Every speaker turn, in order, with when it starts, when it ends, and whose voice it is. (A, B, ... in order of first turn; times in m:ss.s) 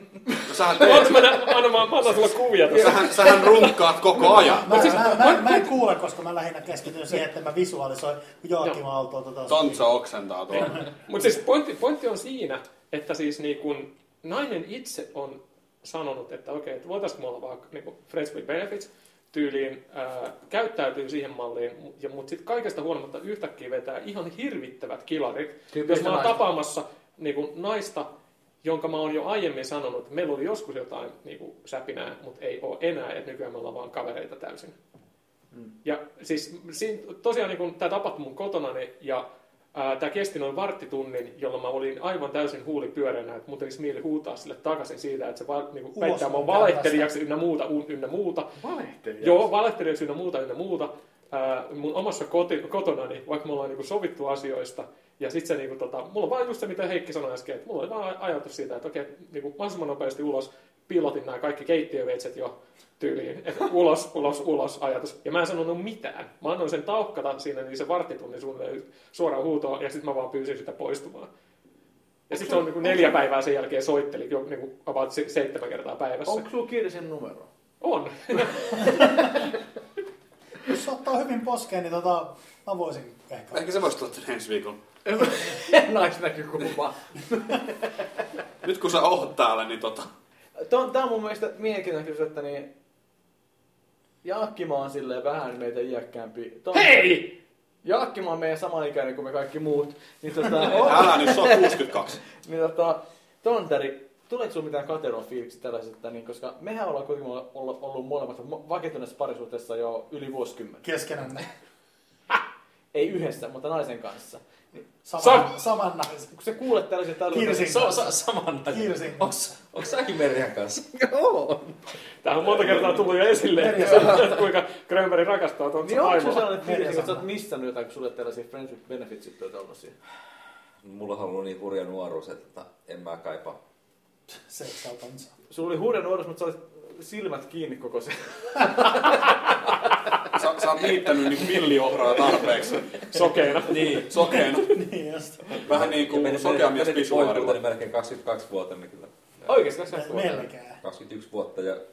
0:00.4-0:01.4 A
0:00.6-0:05.7 B
0:02.6-0:05.0 A
0:04.5-0:09.8 C
0:09.5-0:10.8 A
0:10.6-0:28.1 B
0:25.7-0:26.4 D
0:28.6-0:34.7 B
0:35.8-0:48.5 B
0:45.9-0:47.1 C
0:48.6-0:49.5 D
0:49.2-1:11.3 B
1:12.3-1:16.4 B
1:12.4-1:13.1 C
1:16.2-1:17.5 D
1:17.8-1:19.4 B
1:20.6-1:23.8 C
1:23.5-1:24.8 A
1:25.0-1:28.0 D
1:28.6-1:30.1 A
1:30.6-1:32.7 D
1:34.2-1:37.2 D
1:36.7-1:37.3 B
1:37.8-1:41.8 D
1:40.6-1:42.2 A
1:42.3-1:50.8 D
1:50.8-1:51.5 C
1:52.9-1:54.4 D
1:55.0-1:56.3 C
1:55.2-1:55.5 B
1:56.3-1:58.0 D
1:57.3-1:58.1 C
1:57.6-2:01.0 E
1:58.7-1:59.6 C
2:01.0-2:01.6 D
2:02.2-2:06.6 B
2:03.5-2:04.3 C
2:03.8-2:04.4 D
2:05.8-2:10.0 D
2:06.6-2:07.3 C
2:10.8-2:13.6 E
2:14.3-2:15.3 C
2:15.5-2:19.9 D
2:20.3-2:23.1 A
2:23.1-2:24.1 B
2:23.7-2:24.1 E
2:23.9-2:24.8 A
2:24.1-2:25.6 C
2:25.6-2:27.6 A
2:25.6-2:29.5 E
2:29.4-2:30.5 D
2:29.9-2:30.8 C
2:30.8-2:31.8 E